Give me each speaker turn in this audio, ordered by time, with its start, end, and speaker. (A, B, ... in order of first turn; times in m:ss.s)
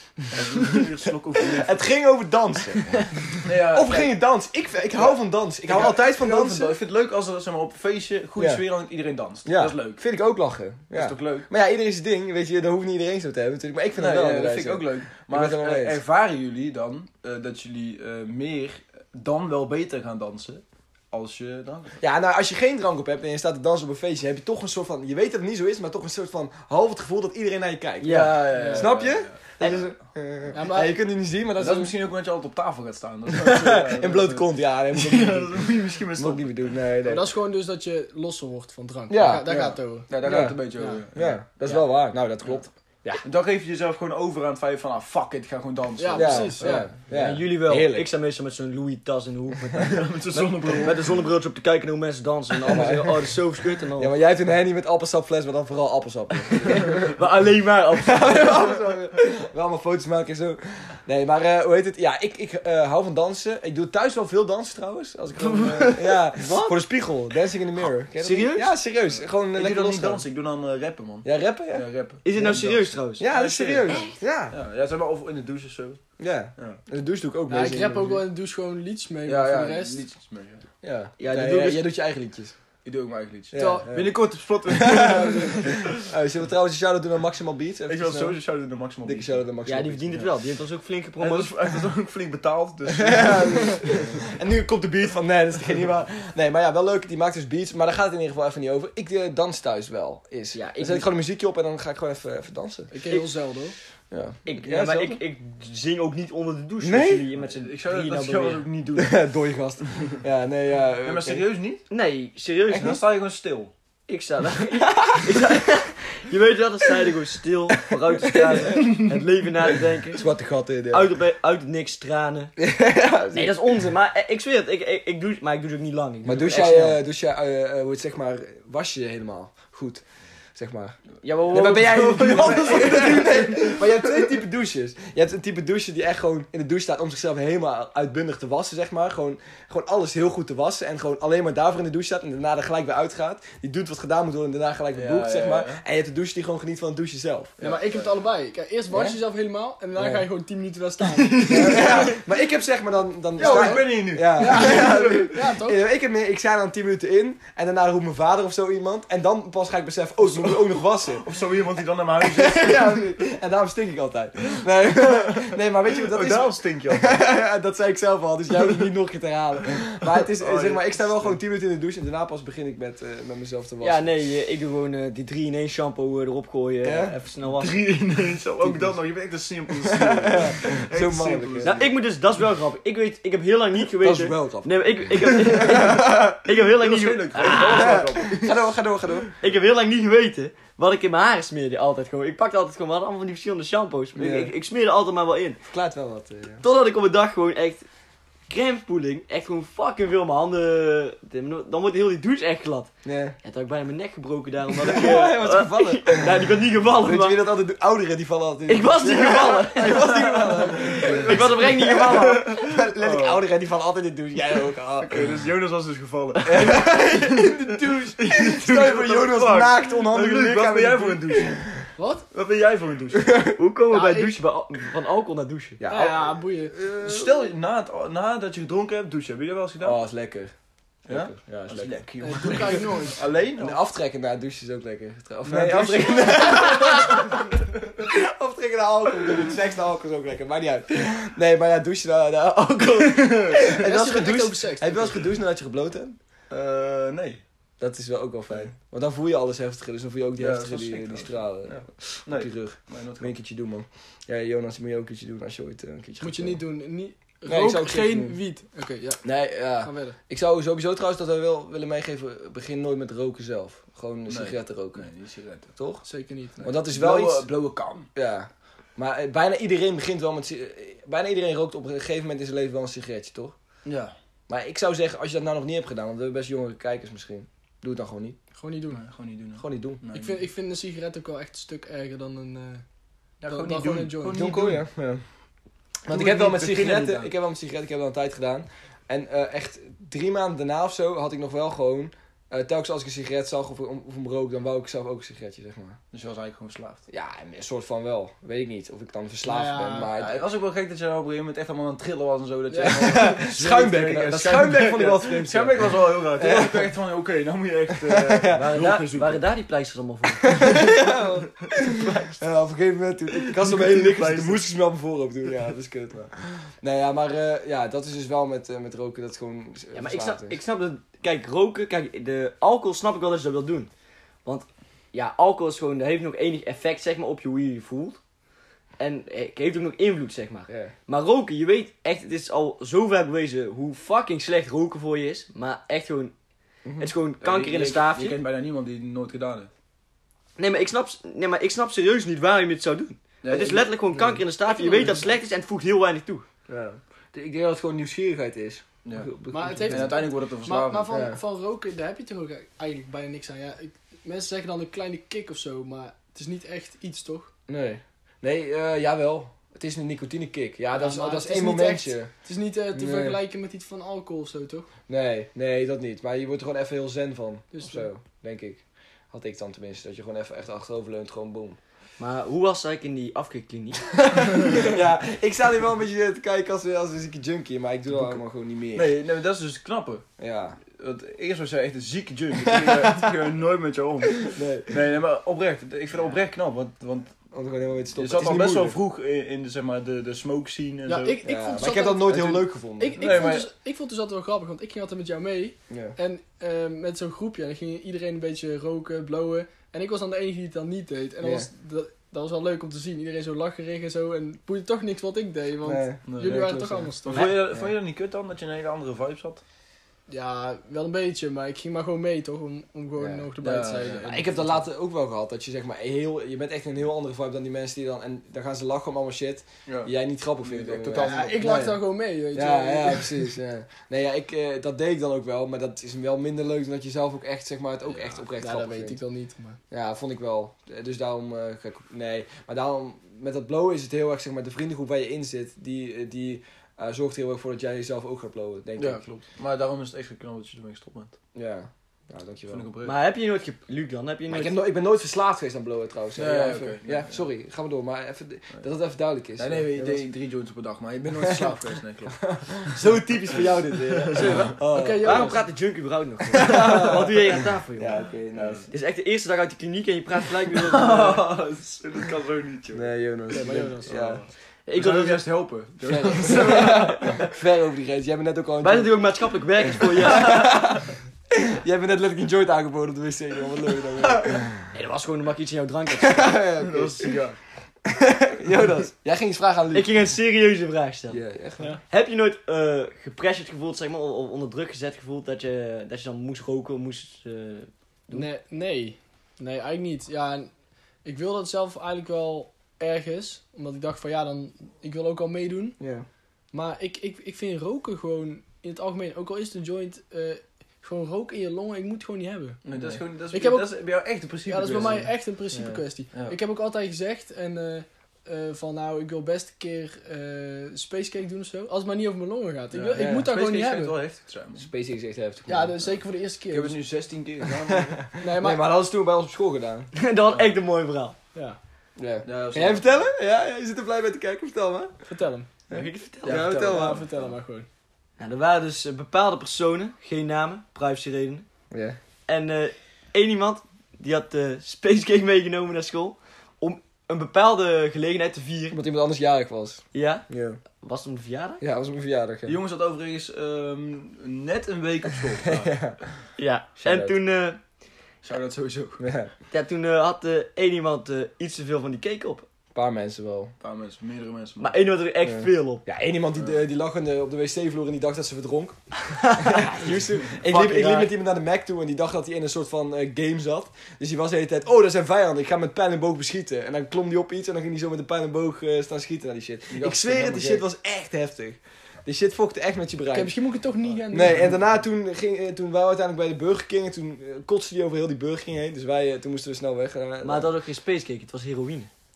0:00.3-0:01.8 A
0:01.4-0:06.8 B
0:03.4-0:04.2 A
0:05.0-0:10.0 A
0:08.4-0:08.7 B
0:09.5-0:16.0 B
0:10.9-0:11.5 A
0:14.0-0:22.0 A
0:22.0-0:31.9 B
0:28.0-0:28.5 C
0:28.0-0:30.0 A
0:28.5-0:28.9 D
0:30.5-0:31.0 D
0:31.6-0:36.6 A
0:33.3-0:37.3 B
0:37.0-0:41.0 D
0:39.1-0:39.6 B
0:39.4-0:41.4 A
0:40.2-0:40.6 B
0:41.1-0:43.2 B
0:43.2-0:46.8 A
0:46.0-0:46.9 D
0:46.2-0:48.1 B
0:47.1-0:54.1 C
0:49.8-0:51.2 A
0:52.7-0:53.3 B
0:54.0-0:57.2 B
0:56.7-0:58.7 C
0:58.0-1:10.2 B
1:05.4-1:06.8 C
1:08.2-1:08.7 C
1:09.5-1:13.9 A
1:11.2-1:11.8 B
1:12.2-1:13.3 C
1:13.2-1:14.6 B
1:14.5-1:16.0 A
1:16.2-1:18.2 B
1:17.5-1:20.0 D
1:17.9-1:18.2 A
1:19.2-1:20.7 A
1:20.8-1:22.6 B
1:21.2-1:21.9 C
1:22.8-1:25.9 A
1:23.5-1:24.2 B
1:23.6-1:23.9 D
1:24.7-1:28.4 B
1:27.9-1:29.5 A
1:29.1-1:30.3 B
1:29.7-1:31.5 C
1:31.2-1:34.2 A
1:33.0-1:42.9 B
1:40.5-1:41.1 C
1:42.9-1:43.8 D
1:44.1-1:45.2 B
1:44.5-1:48.7 C
1:46.8-1:47.3 B
1:47.4-1:49.3 A
1:49.0-1:51.5 B
1:51.0-1:51.8 A
1:51.9-1:53.0 C
1:52.7-1:53.7 A
1:54.1-2:00.3 C
1:57.9-1:58.8 B
2:00.1-2:01.1 B
2:00.9-2:02.6 C
2:02.6-2:03.8 B
2:03.3-2:07.0 C
2:06.2-2:10.0 B
2:10.6-2:11.0 B
2:11.2-2:13.3 C
2:11.5-2:27.6 B
2:12.2-2:14.1 A
2:24.9-2:25.8 A
2:27.6-2:28.1 A
2:27.6-2:32.2 D
2:28.9-2:29.2 B
2:30.0-2:30.3 B
2:31.2-2:32.1 A
2:31.5-2:41.3 B
2:33.4-2:35.3 A
2:33.4-2:35.8 D
2:40.2-2:43.2 A
2:42.2-2:54.1 B
2:45.0-2:47.2 A
2:50.4-2:51.4 A
2:53.8-2:57.8 C
2:56.8-2:57.2 B
2:57.6-3:01.9 A
2:59.8-3:01.8 B
3:01.6-3:08.1 C
3:04.0-3:06.5 B
3:06.7-3:08.6 A
3:07.5-3:09.3 B
3:09.4-3:15.6 C
3:14.2-3:14.5 B
3:15.7-3:16.6 B
3:16.6-3:17.8 C
3:18.5-3:22.9 C
3:23.0-3:23.4 B
3:23.4-3:27.4 C
3:24.8-3:35.3 B
3:28.7-3:32.4 C
3:30.7-3:33.4 A
3:35.0-3:41.8 A
3:36.4-3:41.7 B
3:42.0-3:42.3 D
3:42.3-3:43.4 A
3:43.3-3:43.5 B
3:43.6-3:45.8 C
3:43.9-3:44.4 D
3:45.8-3:47.4 B
3:45.9-3:46.8 D
3:46.9-3:50.0 A
3:49.8-3:50.5 B
3:51.1-3:52.8 B
3:51.1-3:53.8 A
3:52.2-3:53.2 D
3:53.6-4:06.2 B
3:55.5-3:57.3 A
4:03.0-4:03.7 A
4:03.7-4:05.2 D
4:06.5-4:07.4 A
4:07.8-4:16.6 B
4:10.4-4:13.4 A
4:16.2-4:19.3 D
4:17.5-4:18.4 B
4:19.2-4:25.1 B
4:19.8-4:20.2 D
4:24.3-4:25.7 A
4:25.8-4:26.0 B
4:26.0-4:26.7 D
4:26.6-4:27.5 B
4:26.7-4:28.1 A
4:28.2-4:33.6 B
4:33.8-4:34.1 A
4:34.5-4:38.4 B
4:38.6-4:39.0 D
4:38.9-4:40.4 A
4:39.6-4:40.0 B
4:40.1-4:42.8 D
4:43.4-4:44.8 A
4:43.4-4:44.5 D
4:44.3-4:45.2 B
4:46.0-4:56.0 B
4:46.1-4:47.3 A
4:56.1-4:57.0 A
4:57.1-5:00.4 B
4:59.5-5:00.1 D
5:00.2-5:09.4 A
5:02.7-5:03.2 D
5:02.8-5:06.9 B
5:08.0-5:08.8 B
5:08.5-5:11.0 C
5:10.4-5:20.6 B
5:11.8-5:12.4 C
5:13.5-5:14.7 A
5:19.9-5:23.9 C
5:24.4-5:28.2 C
5:29.0-5:36.3 C
5:36.8-5:37.1 B
5:37.0-5:38.4 C
5:37.4-5:39.7 A
5:40.6-5:46.5 C
5:43.4-5:43.9 A
5:44.7-5:45.3 D
5:46.7-5:50.2 B
5:49.0-5:49.3 A
5:49.5-5:57.5 D
5:49.9-5:51.1 A
5:51.1-5:51.4 B
5:57.7-6:02.3 B
6:01.0-6:04.9 D
6:02.9-6:03.4 B
6:05.1-6:11.8 B
6:07.7-6:08.1 D
6:12.2-6:14.1 C
6:14.2-6:19.1 B
6:18.1-6:18.4 A
6:18.9-6:20.3 A
6:20.4-6:20.8 B
6:20.9-6:27.4 A
6:22.7-6:23.2 B
6:24.4-6:25.0 B
6:27.5-6:29.0 B
6:28.2-6:31.4 A
6:31.1-6:47.5 D
6:31.4-6:33.5 B
6:32.3-6:32.6 A
6:33.2-6:33.7 A
6:35.9-6:36.2 B
6:41.4-6:41.7 B
6:45.8-6:47.1 B
6:46.3-6:49.6 A
6:47.3-6:47.6 C
6:50.3-6:54.8 D
6:53.2-6:53.5 B
6:53.6-6:54.4 A
6:54.2-7:02.0 B
6:59.9-7:01.7 A
7:01.1-7:03.5 D
7:02.5-7:09.2 B
7:08.6-7:09.8 D
7:09.9-7:19.2 B
7:19.0-7:21.4 A
7:21.6-7:22.9 B
7:22.7-7:23.2 A
7:23.0-7:24.8 C
7:24.5-7:30.2 B
7:26.4-7:27.4 A
7:29.6-7:32.6 A
7:32.4-7:35.6 B
7:33.0-7:38.3 C
7:34.0-7:34.6 A
7:34.9-7:35.6 D
7:36.5-7:37.4 B
7:38.0-7:38.9 B
7:38.6-7:38.8 A
7:38.9-7:41.4 C
7:40.7-7:44.2 A
7:42.9-7:44.4 B
7:43.5-7:44.5 D
7:44.9-7:45.4 C
7:45.0-7:47.4 A
7:46.0-7:49.2 B
7:46.4-7:47.3 C
7:48.8-7:50.8 C
7:50.0-7:54.7 B
7:54.2-7:54.6 A
7:54.9-7:56.6 C
7:56.2-7:57.3 B
7:56.8-7:57.6 A
7:58.1-8:00.1 B
7:59.9-8:01.4 C
8:01.3-8:01.9 B
8:02.1-8:08.5 C
8:08.3-8:10.7 D
8:11.2-8:16.0 D
8:16.0-8:16.3 B
8:16.7-8:22.8 D
8:22.8-8:25.3 A
8:23.5-8:23.9 D
8:24.7-8:34.2 D
8:25.7-8:26.0 B
8:32.9-8:34.9 A
8:33.2-8:33.5 B
8:34.8-8:36.1 B
8:35.7-8:37.0 D
8:36.7-8:38.2 A
8:37.9-8:40.1 B
8:38.4-8:38.8 D
8:40.1-8:41.4 C
8:42.2-8:45.2 B
8:42.4-8:43.2 A
8:45.3-8:45.7 D
8:45.9-8:46.6 C
8:45.9-8:47.2 B
8:46.4-8:47.4 A
8:46.6-8:47.9 D
8:48.4-8:51.7 C
8:51.9-8:52.2 B
8:52.5-8:59.0 C
8:58.9-9:00.8 B
9:00.1-9:01.8 C
9:01.8-9:02.8 B
9:02.7-9:06.1 A
9:05.6-9:06.2 B
9:06.6-9:07.8 C
9:07.0-9:07.4 B
9:08.4-9:09.2 A
9:09.2-9:09.5 B
9:09.7-9:12.7 C
9:13.0-9:13.7 B
9:13.8-9:15.0 A
9:14.8-9:16.0 C
9:15.4-9:33.5 B
9:19.3-9:20.1 C
9:20.6-9:21.3 C
9:29.9-9:30.8 A
9:33.3-9:34.7 D
9:34.3-9:40.7 B
9:40.4-9:42.1 C